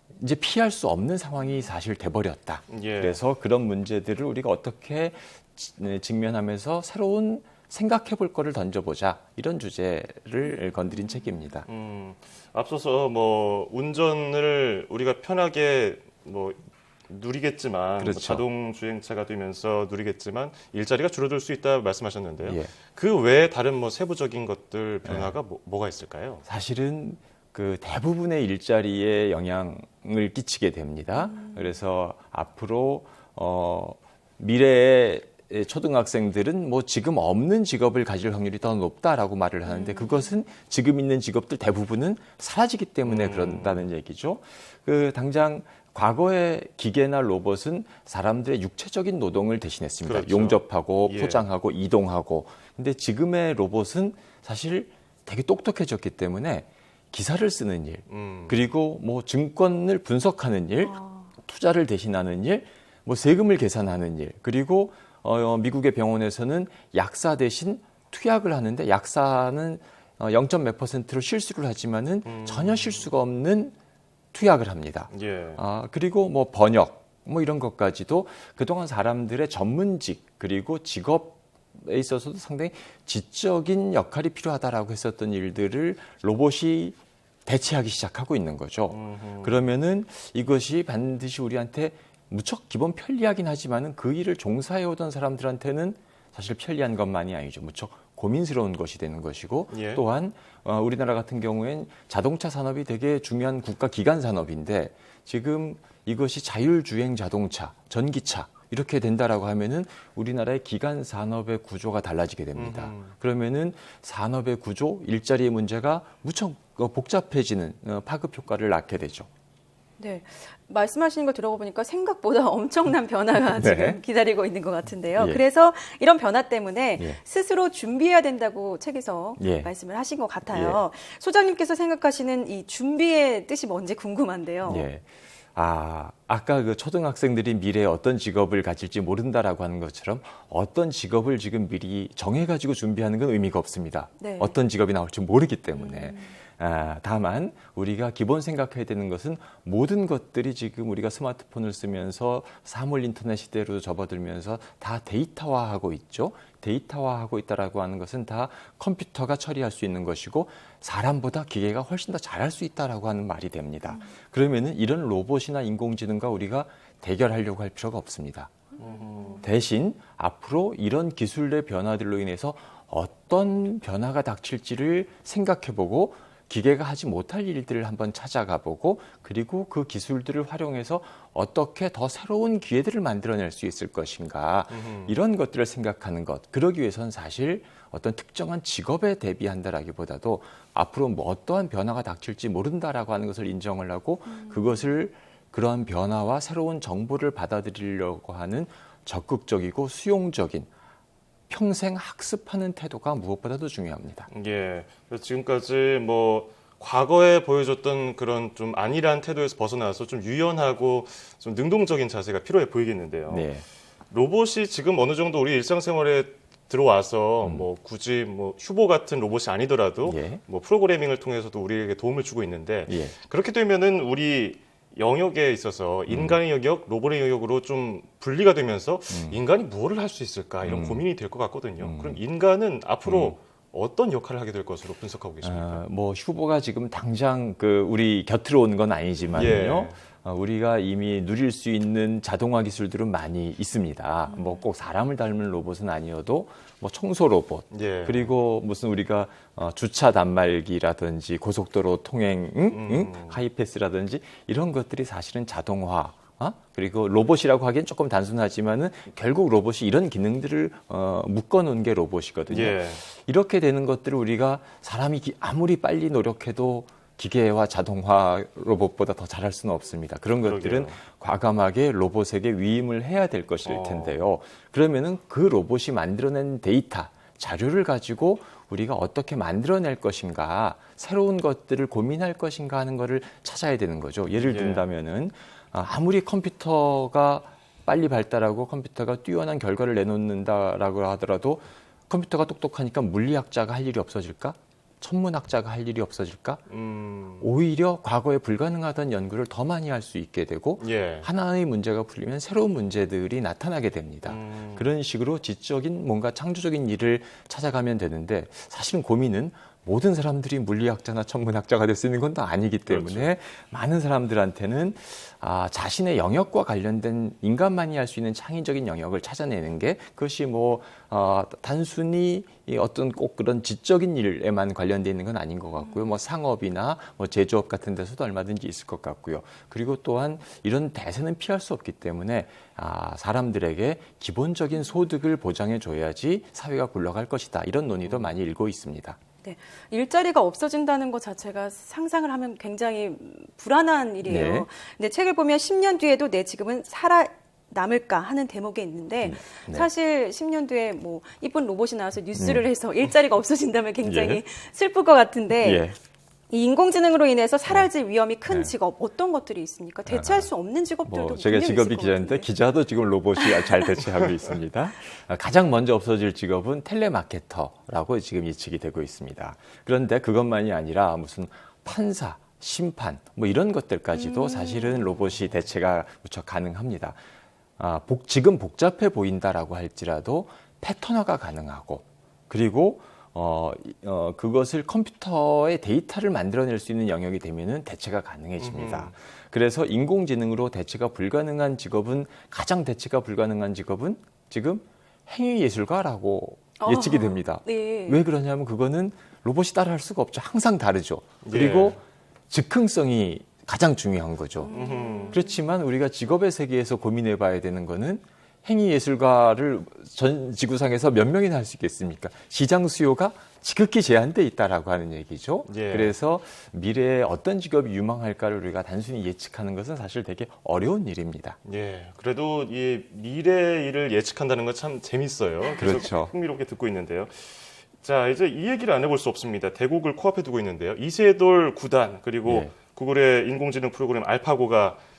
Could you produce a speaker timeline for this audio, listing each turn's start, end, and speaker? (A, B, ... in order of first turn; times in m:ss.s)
0:00.2-0:11.7 A
0:02.7-0:03.2 B
0:11.7-0:26.4 B
0:18.0-0:18.4 A
0:22.4-0:22.7 A
0:25.1-0:25.3 A
0:26.4-1:13.8 A
0:31.2-0:31.7 C
0:39.7-0:40.2 C
0:43.1-0:43.9 B
0:50.0-0:51.4 B
0:58.1-0:58.6 B
1:00.8-1:01.3 C
1:12.2-1:13.1 B
1:14.3-1:59.3 A
1:15.1-1:15.6 B
1:28.9-1:29.6 B
1:39.7-1:40.0 B
1:52.6-1:53.1 B
2:00.0-2:14.9 C
2:03.5-2:04.0 A
2:05.2-2:05.4 A
2:09.4-2:09.7 A
2:10.5-2:10.8 A
2:14.6-2:48.5 A
2:24.2-2:24.6 C
2:25.7-2:26.4 C
2:48.8-2:49.4 C
2:48.8-2:49.3 B
2:49.4-3:20.7 A
3:04.7-3:05.2 B
3:14.3-3:14.8 C
3:21.5-3:24.3 A
3:24.3-3:33.5 B
3:33.3-3:33.6 A
3:34.1-3:55.8 B
3:40.0-3:40.4 A
3:42.9-3:43.1 A
3:46.1-3:46.4 A
3:49.1-3:49.4 A
3:50.6-3:51.1 A
3:51.8-3:52.2 A
3:53.0-3:53.3 A
3:55.4-4:56.6 A
3:59.3-4:00.0 B
4:07.7-4:08.3 B
4:12.7-4:13.4 B
4:22.5-4:23.0 B
4:30.4-4:31.0 B
4:33.6-4:34.3 B
4:44.4-4:44.9 B
4:56.7-4:57.5 B
4:57.4-5:39.2 A
5:00.8-5:01.3 B
5:04.2-5:04.9 B
5:12.9-5:13.3 B
5:25.8-5:26.1 C
5:38.1-5:38.3 B
5:39.4-5:55.9 C
5:44.2-5:44.7 A
5:49.2-5:49.9 A
5:52.4-5:52.6 A
5:54.0-5:54.4 A
5:55.6-5:56.0 A
5:56.5-6:02.5 C
5:58.5-5:58.7 A
6:00.1-6:00.5 A
6:01.0-6:17.2 A
6:03.4-6:04.1 C
6:14.5-6:14.9 C
6:17.8-7:01.6 A
6:28.6-6:29.1 B
6:36.8-6:38.2 C
6:41.4-6:42.0 B
6:44.6-6:45.6 C
6:44.7-6:45.4 B
6:55.6-6:56.2 B
7:01.6-7:15.0 B
7:05.8-7:06.3 A
7:12.5-7:12.7 A